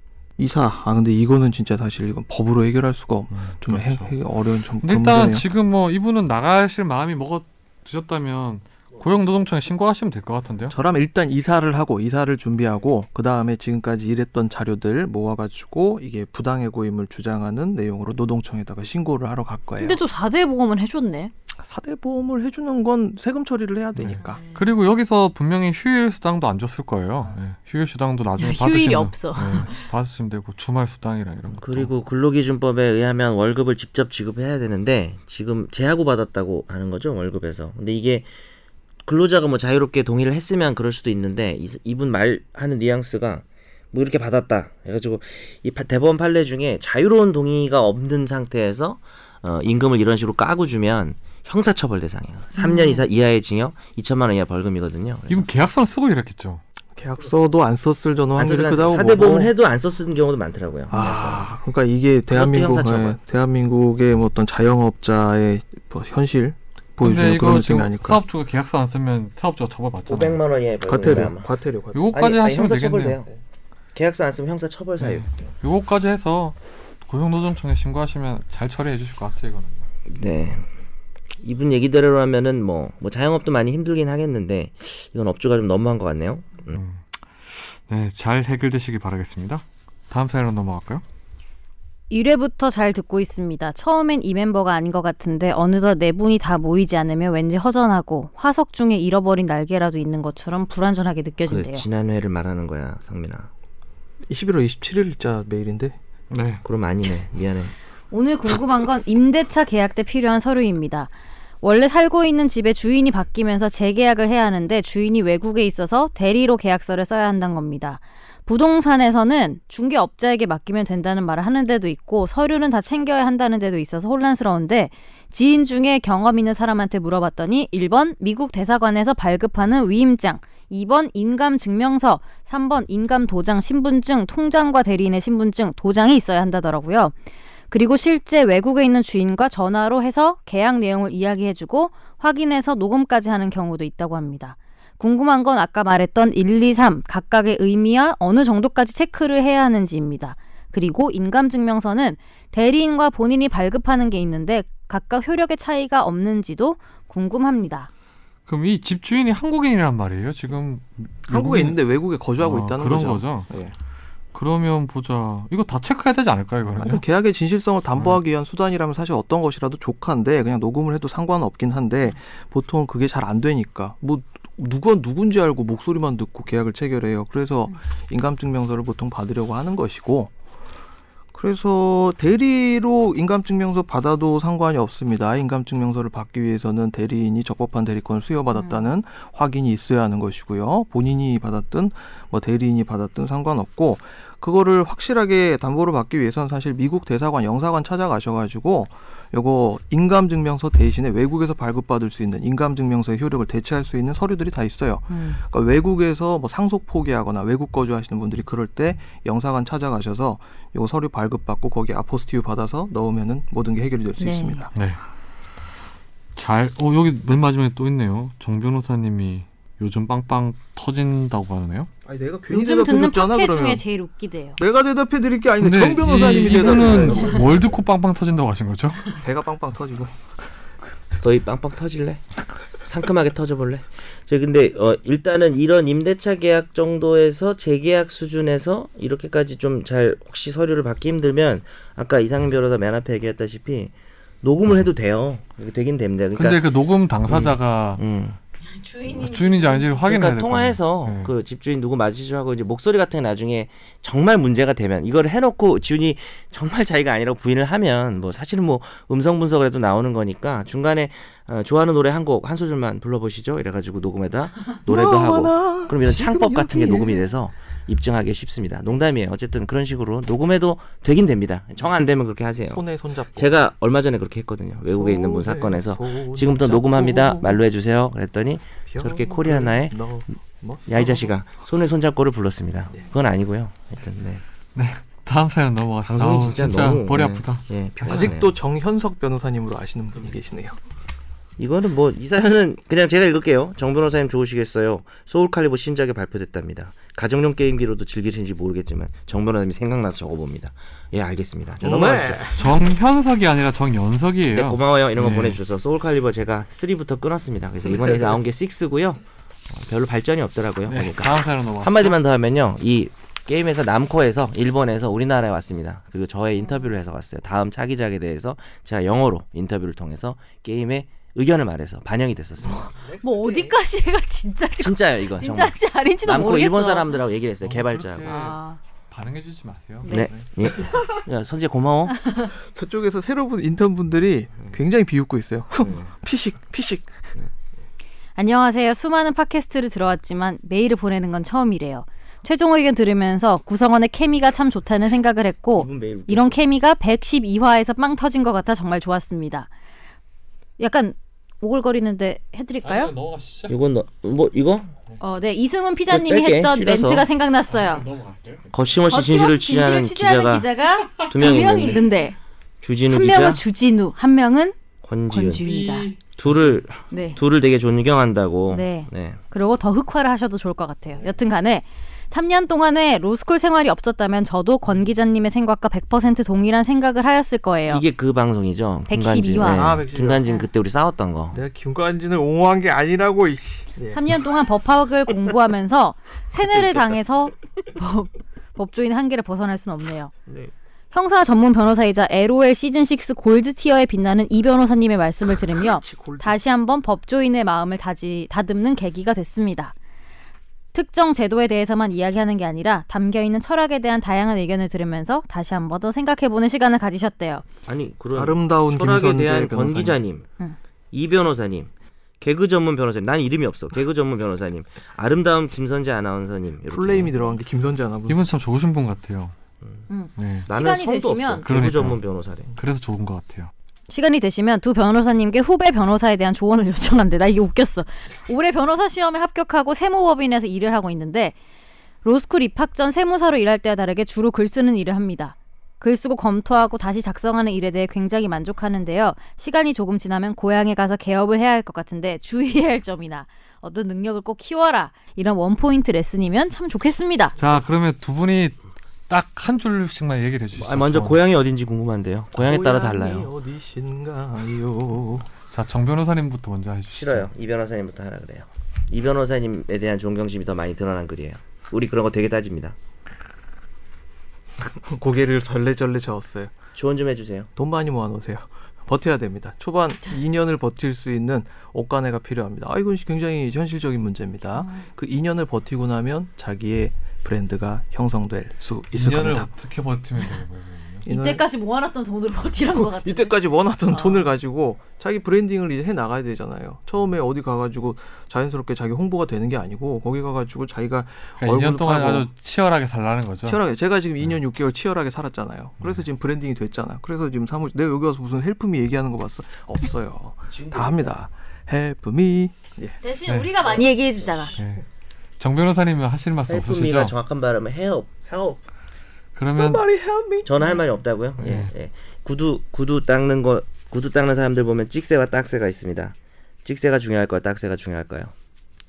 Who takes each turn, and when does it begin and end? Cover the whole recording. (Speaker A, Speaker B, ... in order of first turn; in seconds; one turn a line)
Speaker A: 0.4-5.5
Speaker B: 3.3-4.1
Speaker B: 4.8-10.8
Speaker A: 10.7-20.0
Speaker C: 19.8-21.3
Speaker A: 21.6-24.4
Speaker B: 24.0-31.9
Speaker C: 24.2-24.6
Speaker C: 28.4-29.8
Speaker D: 31.5-38.3
Speaker D: 39.0-55.5
Speaker C: 52.6-53.0
Speaker B: 55.3-56.6
Speaker A: 57.0-59.5
Speaker D: 58.4-61.5
Speaker A: 60.9-68.2
Speaker D: 62.3-63.2
Speaker B: 67.0-70.4
Speaker D: 70.1-71.5
Speaker A: 70.9-72.2
Speaker B: 71.9-73.2
Speaker D: 72.1-73.3
Speaker D: 74.0-75.5
Speaker B: 75.0-79.8
Speaker D: 80.1-80.7
Speaker D: 81.4-86.8
Speaker B: 86.7-91.0
Speaker C: 92.1-101.9
Speaker D: 101.5-103.5
Speaker A: 104.3-106.0
Speaker B: 106.3-106.6
Speaker D: 106.6-107.7
Speaker C: 108.1-111.1
Speaker C: 111.6-137.1
Speaker C: 137.7-157.9
Speaker B: 158.5-161.8
Speaker A: 161.3-163.7
Speaker B: 162.4-163.5
Speaker B: 164.3-167.0
Speaker A: 166.8-180.3
Speaker A: 181.3-214.7
Speaker C: 205.1-205.4
Speaker C: 214.2-214.7
Speaker B: 216.4-221.9
Speaker A: 222.1-223.8
Speaker C: 222.5-224.6
Speaker A: 224.6-227.7
Speaker B: 225.6-229.1
Speaker A: 229.2-230.2
Speaker D: 231.2-232.2
Speaker D: 232.8-246.7
Speaker B: 246.4-248.0
Speaker D: 247.3-248.4
Speaker C: 248.7-250.1
Speaker B: 249.1-251.3
Speaker D: 250.1-272.8
Speaker A: 264.9-267.3
Speaker A: 272.7-273.5
Speaker D: 273.4-280.0
Speaker A: 274.9-277.6
Speaker A: 278.9-281.3
Speaker D: 280.9-284.4
Speaker B: 284.8-287.7
Speaker D: 286.1-288.5
Speaker A: 288.0-290.8
Speaker D: 291.6-302.5
Speaker A: 301.8-302.6
Speaker B: 302.5-305.6
Speaker D: 304.5-322.9
Speaker A: 307.9-308.4
Speaker B: 310.9-312.2
Speaker C: 322.7-327.2
Speaker D: 324.8-328.3
Speaker B: 327.6-328.6
Speaker C: 328.3-328.8
Speaker B: 329.1-330.2
Speaker C: 330.0-330.3
Speaker D: 330.1-332.2
Speaker C: 332.2-332.5
Speaker A: 332.6-337.1
Speaker D: 335.8-336.1
Speaker C: 338.4-349.7
Speaker D: 345.8-346.6
Speaker C: 350.8-353.1
Speaker B: 352.8-353.7
Speaker D: 353.7-354.9
Speaker C: 355.2-358.1
Speaker D: 356.1-357.3
Speaker B: 357.7-358.7
Speaker D: 358.7-362.1
Speaker C: 359.1-362.4
Speaker D: 362.8-363.6
Speaker C: 363.1-364.8
Speaker D: 365.0-365.6
Speaker C: 365.3-366.1
Speaker B: 365.6-366.8
Speaker D: 366.4-369.4
Speaker C: 367.1-367.4
Speaker C: 368.7-378.0
Speaker D: 377.9-381.6
Speaker C: 379.1-380.0
Speaker A: 379.6-380.5
Speaker A: 381.5-384.2
Speaker C: 384.1-390.3
Speaker C: 391.1-399.9
Speaker A: 396.0-396.4
Speaker C: 400.9-407.7
Speaker D: 407.9-410.5
Speaker A: 408.3-410.2
Speaker D: 411.1-417.5
Speaker A: 416.9-418.4
Speaker B: 418.3-419.5
Speaker C: 420.1-421.7
Speaker B: 420.4-420.7
Speaker D: 420.7-422.7
Speaker B: 421.6-422.2
Speaker B: 422.8-423.7
Speaker C: 424.1-431.6
Speaker C: 432.2-447.6
Speaker B: 447.6-451.4
Speaker D: 450.7-453.5
Speaker A: 452.6-455.5
Speaker B: 455.7-457.5
Speaker D: 457.1-463.0
Speaker A: 464.8-466.7
Speaker D: 467.0-467.7
Speaker A: 467.8-479.7
Speaker C: 474.8-475.1
Speaker B: 479.1-481.3
Speaker A: 481.2-481.6
Speaker C: 481.3-483.5
Speaker A: 482.9-492.5
Speaker C: 484.1-484.5
Speaker B: 491.6-493.8
Speaker A: 493.7-503.2
Speaker D: 500.7-501.3
Speaker C: 503.2-504.8
Speaker B: 503.5-503.9
Speaker B: 504.8-505.0
Speaker B: 505.6-507.3
Speaker D: 506.7-508.4
Speaker A: 508.5-508.8
Speaker B: 509.6-510.1
Speaker A: 509.7-511.0
Speaker D: 510.6-518.5
Speaker B: 511.6-511.9